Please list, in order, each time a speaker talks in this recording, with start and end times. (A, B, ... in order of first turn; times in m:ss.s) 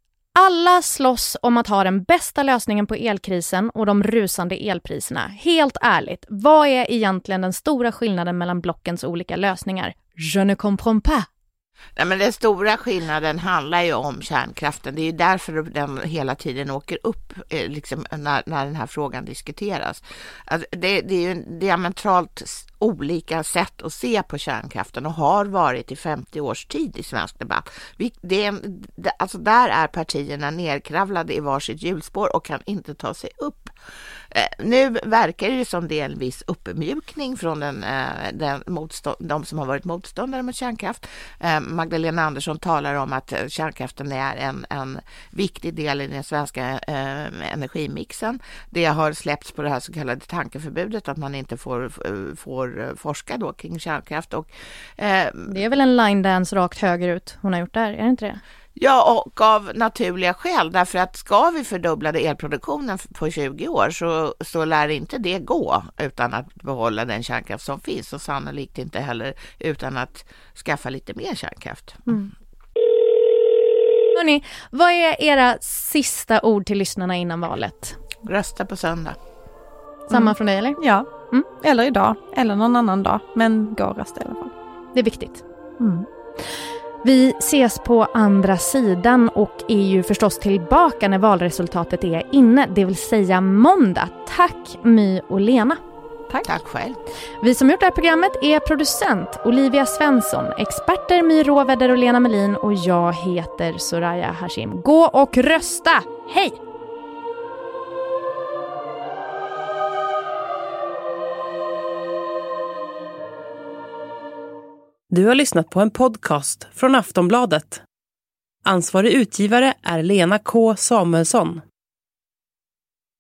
0:00.4-0:11.3 A
0:12.0-0:33.7 B
0:34.3-0:55.6 B
0:55.5-0:58.4 A
0:58.8-1:12.1 B
1:14.1-1:18.0 A
1:18.2-1:19.2 B
1:20.1-1:24.5 C
1:20.1-1:20.8 A
1:24.9-1:25.4 A
1:25.8-1:26.0 C
1:27.0-1:35.8 A
1:36.4-1:37.0 B
1:37.4-1:46.6 A
1:55.1-1:57.8 D
1:58.6-2:01.6 D